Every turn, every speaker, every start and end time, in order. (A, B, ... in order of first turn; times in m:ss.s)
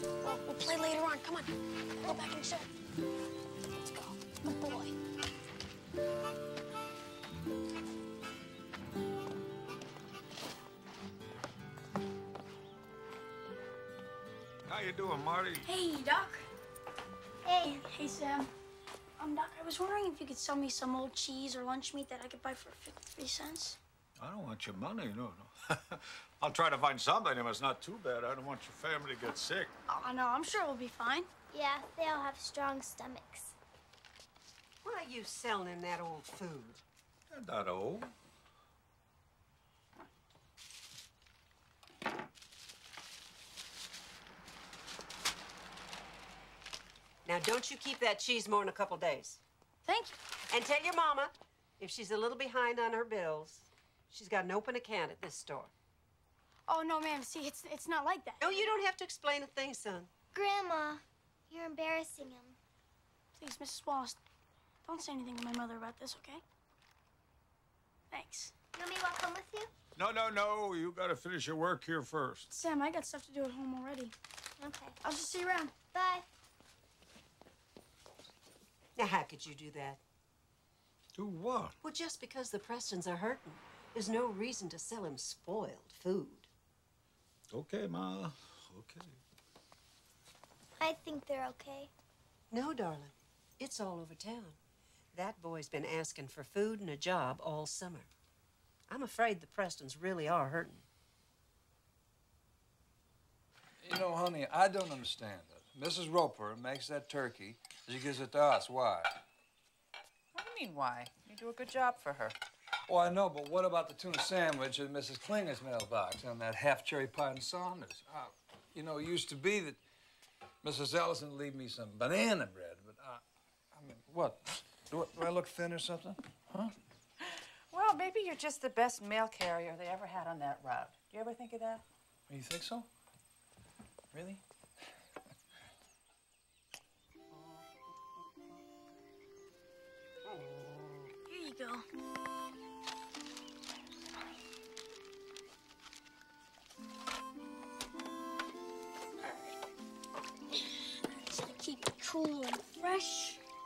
0:00.2-0:02.7 A
0:03.8-0:05.0 A
0:14.7-0:15.7 B
0:15.6-0:16.5 A
0:17.4-0:17.8 C
0:17.6-0:18.5 A
0:19.2-0:23.8 A
0:24.2-0:29.7 B
0:29.9-0:31.3 A
0:31.5-0:33.6 C
0:34.8-0:36.8 D
0:37.3-0:38.1 B
0:47.2-0:49.4 D
0:49.9-0:50.2 A
0:50.5-0:55.7 D
0:56.7-0:58.5 A
0:58.4-1:00.1 D
1:00.3-1:02.6 C
1:03.4-1:04.2 A
1:04.9-1:06.4 A
1:08.1-1:08.5 A
1:08.8-1:09.7 C
1:10.0-1:12.5 B
1:12.5-1:14.1 A
1:14.6-1:15.0 C
1:15.0-1:15.7 A
1:15.9-1:16.2 C
1:19.0-1:20.0 D
1:21.1-1:21.8 B
1:21.8-1:26.5 D
1:27.5-1:29.2 B
1:30.8-1:31.9 C
1:32.5-1:34.6 D
1:35.1-1:38.1 D
1:38.9-1:40.8 D
1:43.8-1:49.2 E
1:50.3-1:52.4 F
1:52.9-1:59.8 E
2:00.6-2:03.2 E
2:03.7-2:06.8 E
2:07.2-2:11.8 F
2:12.3-2:12.9 E
2:14.1-2:14.4 E
2:21.3-2:21.8 A
2:29.2-2:29.6 A
2:30.5-2:33.4 A